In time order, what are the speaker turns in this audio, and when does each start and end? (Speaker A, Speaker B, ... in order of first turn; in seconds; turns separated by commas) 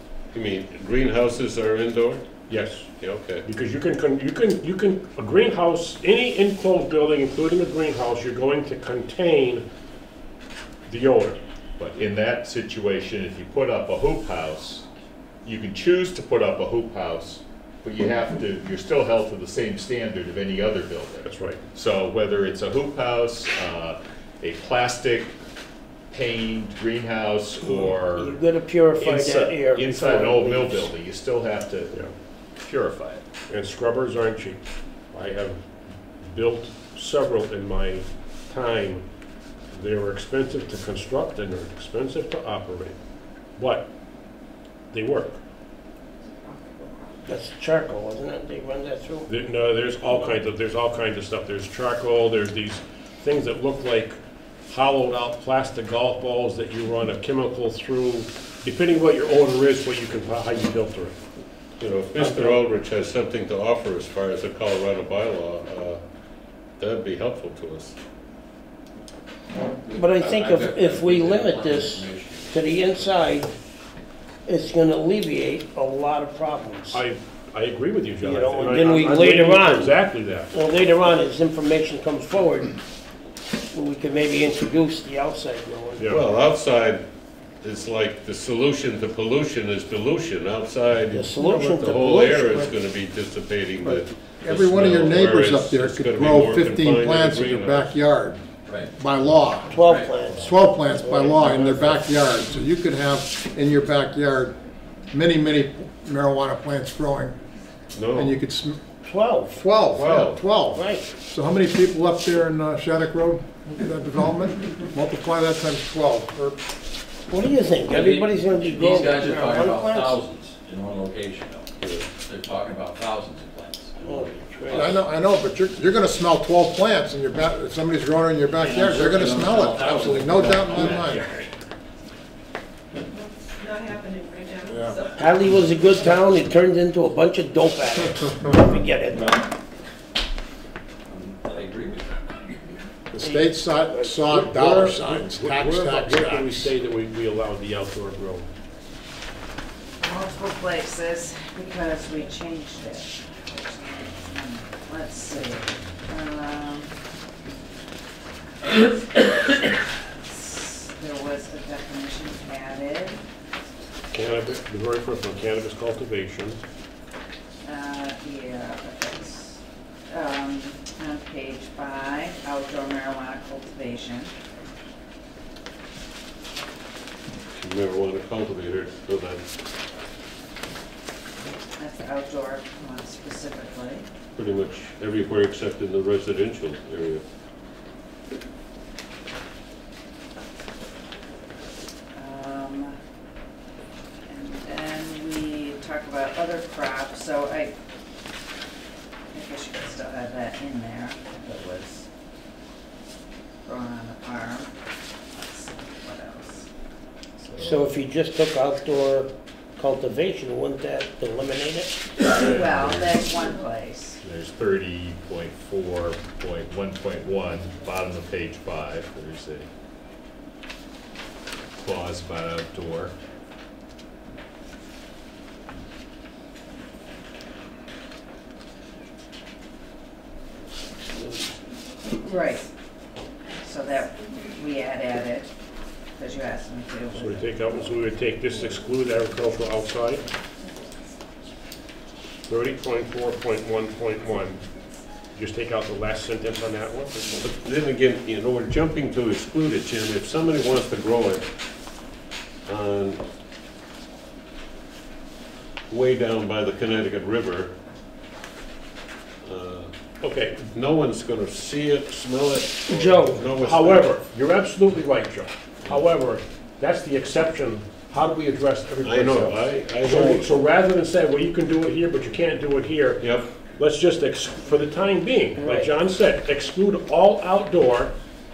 Speaker A: 0.3-2.2, Speaker B: 2.5-2.9, Speaker A: 3.0-3.4, Speaker B: 3.4-9.6, Speaker B: 10.9-11.4, Speaker C: 11.8-14.8, Speaker C: 15.4-25.3, Speaker B: 21.2-21.6, Speaker C: 26.1-28.4, Speaker D: 27.6-30.9, Speaker C: 29.0-31.9, Speaker C: 32.6-33.2, Speaker B: 33.5-35.6, Speaker B: 36.2-39.0, Speaker B: 39.7-43.0, Speaker B: 43.6-43.9, Speaker B: 44.9-45.4, Speaker D: 47.2-49.3, Speaker B: 49.3-61.2, Speaker A: 61.8-66.0, Speaker B: 62.2-62.5, Speaker A: 66.8-68.0, Speaker E: 69.8-73.4, Speaker D: 69.9-73.5, Speaker D: 74.5-77.0, Speaker B: 76.9-80.5, Speaker D: 78.2-82.8, Speaker D: 83.7-86.1, Speaker B: 86.0-86.2, Speaker A: 86.1-87.0, Speaker A: 87.6-97.9, Speaker D: 91.1-92.7, Speaker F: 93.8-98.4, Speaker E: 98.7-98.9, Speaker F: 98.9-99.8, Speaker D: 99.7-102.0, Speaker E: 99.7-100.6, Speaker F: 100.4-104.6, Speaker F: 105.1-107.4, Speaker A: 107.9-108.4, Speaker F: 108.1-108.8, Speaker D: 109.0-109.7, Speaker F: 109.5-116.6, Speaker A: 109.9-110.5, Speaker D: 110.7-111.1, Speaker D: 117.3-120.2, Speaker E: 117.8-125.0, Speaker D: 124.0-125.0, Speaker F: 124.7-131.3, Speaker E: 128.5-131.4, Speaker G: 133.1-135.1, Speaker D: 135.1-139.4, Speaker E: 141.1-142.3, Speaker F: 143.1-146.7, Speaker D: 143.2-144.2, Speaker B: 144.3-148.5, Speaker H: 150.0-156.9, Speaker H: 159.1-159.6, Speaker H: 160.2-163.2, Speaker B: 164.1-166.6, Speaker H: 167.6-174.3, Speaker A: 177.6-179.4, Speaker H: 181.8-184.1, Speaker A: 184.3-187.2, Speaker H: 192.1-193.0, Speaker H: 194.3-197.8, Speaker H: 199.3-202.1, Speaker H: 203.6-204.7, Speaker H: 205.3-206.7, Speaker C: 207.5-207.9, Speaker D: 207.6-212.0, Speaker C: 212.3-213.2, Speaker H: 212.3-214.2, Speaker C: 214.2-219.7, Speaker C: 221.8-223.1, Speaker H: 232.2-232.6, Speaker H: 233.5-235.5, Speaker H: 236.2-237.4, Speaker B: 237.1-240.2, Speaker B: 242.5-244.6, Speaker B: 245.3-247.4, Speaker A: 247.4-251.4, Speaker A: 252.7-253.2, Speaker A: 255.9-257.7, Speaker A: 259.4-259.9, Speaker B: 260.2-260.7, Speaker A: 260.7-264.1, Speaker D: 262.9-263.5, Speaker B: 263.6-278.1, Speaker A: 269.0-270.4, Speaker D: 270.1-270.4, Speaker A: 273.2-273.5, Speaker D: 275.6-275.9